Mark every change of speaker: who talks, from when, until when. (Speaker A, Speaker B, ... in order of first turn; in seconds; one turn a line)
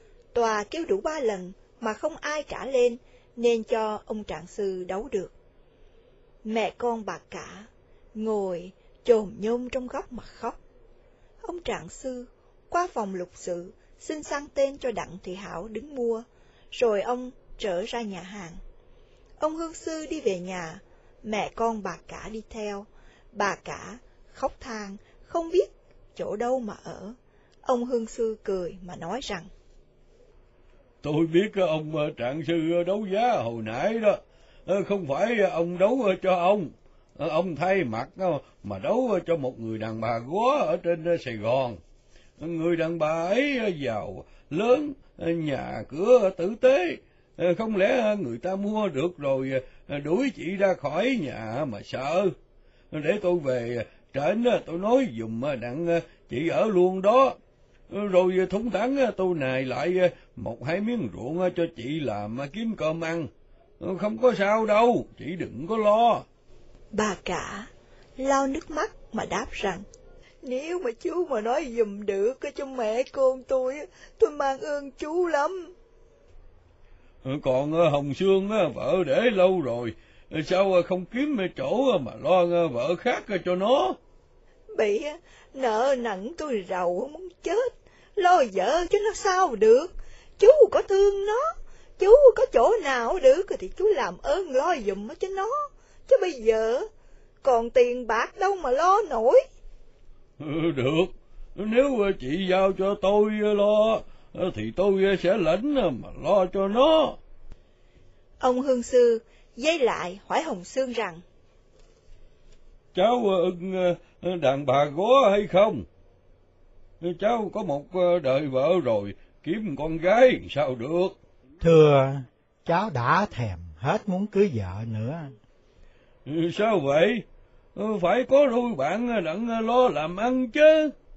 Speaker A: 0.3-5.3
Speaker A: 6.5-10.6
Speaker A: 11.4-18.6
Speaker A: 19.4-29.5
Speaker B: 31.0-41.8
Speaker B: 42.4-52.4
Speaker B: 52.9-57.4
Speaker B: 57.9-63.3
Speaker B: 63.8-66.2
Speaker A: 66.9-69.8
Speaker A: 70.4-75.7
Speaker B: 77.2-84.0
Speaker A: 84.8-96.9
Speaker A: 97.4-99.4
Speaker B: 100.4-107.2
Speaker A: 108.4-111.2
Speaker B: 112.9-115.9
Speaker B: 117.0-121.2
Speaker C: 121.6-125.3
Speaker B: 126.3-127.2
Speaker B: 127.8-130.9